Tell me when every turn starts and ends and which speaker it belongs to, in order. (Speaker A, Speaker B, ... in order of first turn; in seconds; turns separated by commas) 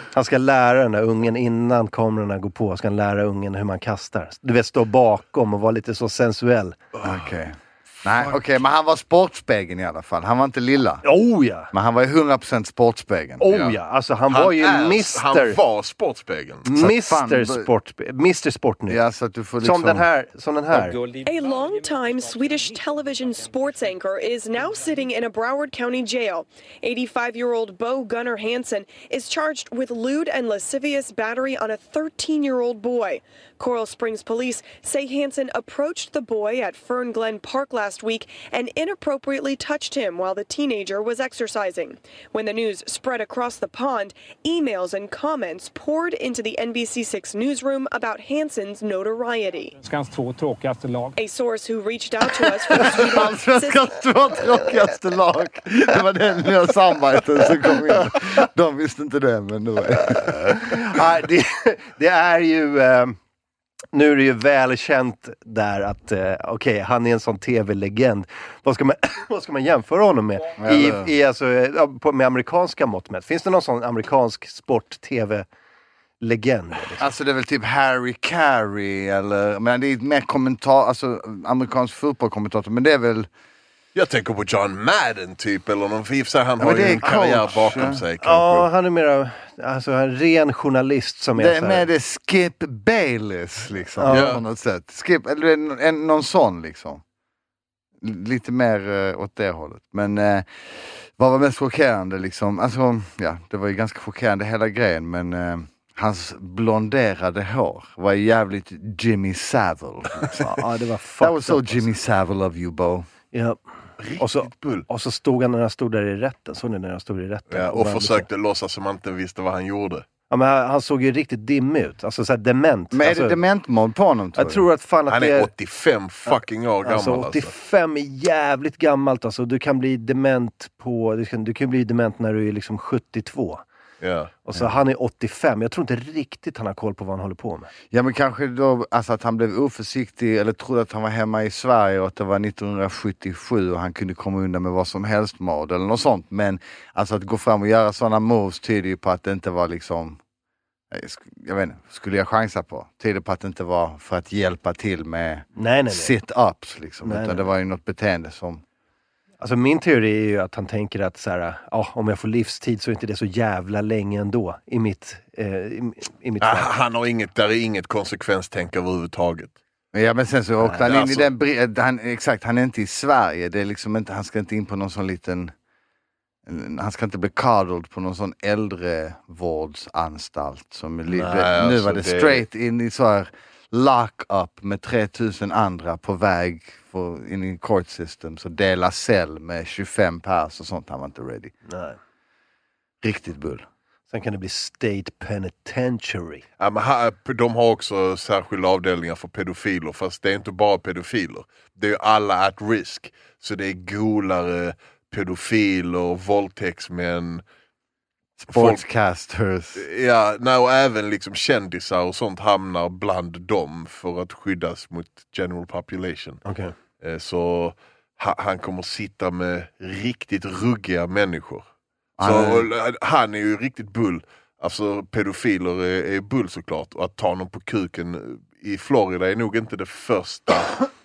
Speaker A: 0.1-6.8, Speaker B: 7.0-7.2, Speaker C: 7.0-11.1, Speaker A: 11.0-11.7, Speaker C: 11.7-13.5, Speaker A: 13.4-15.6, Speaker B: 13.4-13.8, Speaker B: 14.3-16.7, Speaker A: 16.6-19.0, Speaker C: 16.8-17.7, Speaker C: 18.9-20.1, Speaker A: 19.6-20.9, Speaker D: 20.7-23.9, Speaker E: 21.2-49.8, Speaker D: 49.8-51.1, Speaker E: 51.1-53.9, Speaker C: 52.7-61.0, Speaker A: 60.6-63.1, Speaker A: 63.9-75.5, Speaker C: 70.6-71.1, Speaker A: 76.2-77.1, Speaker C: 76.9-83.3, Speaker B: 84.0-88.7, Speaker C: 86.6-88.0, Speaker A: 87.8-91.9, Speaker C: 91.4-97.0, Speaker A: 94.0-94.4, Speaker B: 94.1-94.4, Speaker C: 98.0-110.5, Speaker A: 110.4-111.9, Speaker C: 111.2-113.1, Speaker A: 113.3-113.6, Speaker B: 114.0-114.9, Speaker A: 114.2-118.3, Speaker B: 117.5-120.1, Speaker A: 120.3-123.4, Speaker C: 122.9-124.7, Speaker A: 124.3-125.5, Speaker B: 125.1-127.5, Speaker A: 126.8-133.6, Speaker B: 134.0-134.3, Speaker A: 134.4-137.7, Speaker C: 137.9-150.2, Speaker C: 150.9-158.6, Speaker A: 155.6-156.1, Speaker A: 157.0-157.5, Speaker A: 159.4-166.7, Speaker B: 166.4-169.6, Speaker C: 169.9-175.5, Speaker A: 170.6-170.9, Speaker B: 170.8-171.3, Speaker C: 176.5-191.5, Speaker B: 181.1-182.4, Speaker A: 191.7-192.0, Speaker C: 193.0-193.6, Speaker A: 194.1-196.4, Speaker B: 196.6-207.4, Speaker C: 208.4-209.8, Speaker B: 208.5-208.8, Speaker B: 209.8-216.4, Speaker A: 216.4-216.7, Speaker B: 217.0-221.7, Speaker C: 222.2-222.7, Speaker B: 222.2-230.9